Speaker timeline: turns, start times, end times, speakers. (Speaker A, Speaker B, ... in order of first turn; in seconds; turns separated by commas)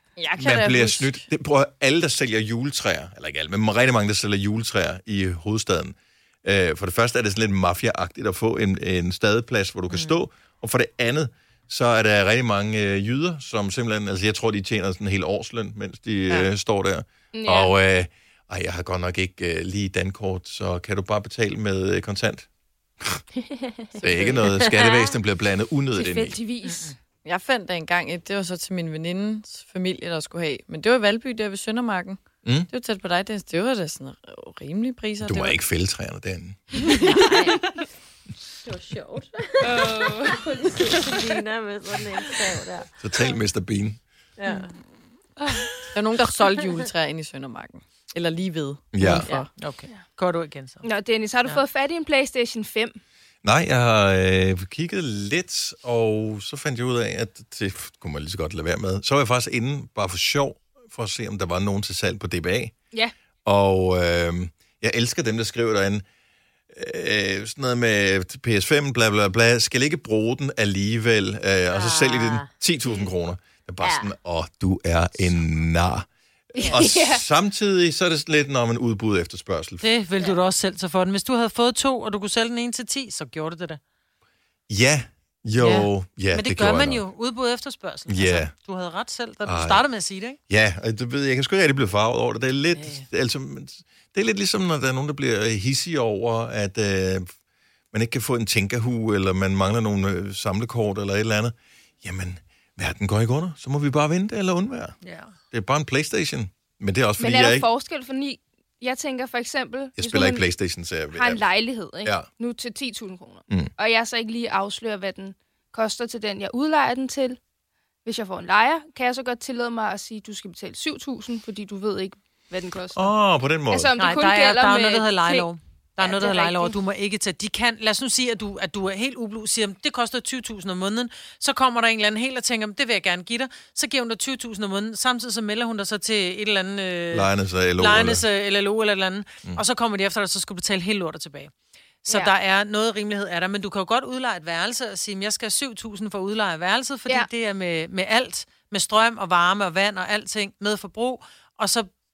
Speaker A: 0.2-1.3, Speaker B: 0.4-22.5, Speaker C: 17.3-17.7, Speaker D: 23.4-25.1, Speaker B: 24.0-26.4, Speaker A: 24.0-24.4, Speaker C: 25.9-26.9, Speaker E: 26.6-26.9, Speaker A: 27.2-35.6, Speaker B: 32.4-32.7, Speaker B: 35.2-36.9, Speaker A: 36.8-37.5, Speaker D: 36.9-37.6, Speaker D: 38.6-42.9, Speaker C: 39.6-40.5, Speaker B: 43.0-44.0, Speaker A: 44.4-44.7, Speaker A: 45.9-49.5, Speaker B: 48.9-49.3, Speaker D: 49.0-49.4, Speaker E: 49.6-50.9, Speaker C: 50.8-53.0, Speaker B: 53.4-62.7, Speaker B: 63.4-66.0, Speaker B: 66.7-76.1, Speaker D: 71.7-72.5, Speaker D: 73.8-74.1, Speaker C: 76.5-77.2, Speaker B: 76.6-79.9, Speaker E: 79.8-83.8, Speaker B: 84.7-87.0, Speaker E: 85.6-90.4, Speaker B: 88.1-88.5, Speaker B: 89.4-89.8, Speaker B: 90.5-97.3, Speaker E: 92.7-93.0, Speaker B: 97.9-104.9, Speaker E: 105.0-105.3, Speaker B: 105.5-107.7, Speaker C: 107.2-110.4, Speaker B: 110.0-111.5, Speaker C: 111.1-117.4, Speaker B: 112.0-112.3, Speaker C: 118.0-123.1, Speaker B: 122.9-123.9, Speaker C: 123.7-125.5, Speaker E: 124.0-141.5, Speaker C: 126.0-126.7, Speaker B: 137.1-138.2, Speaker E: 142.0-151.9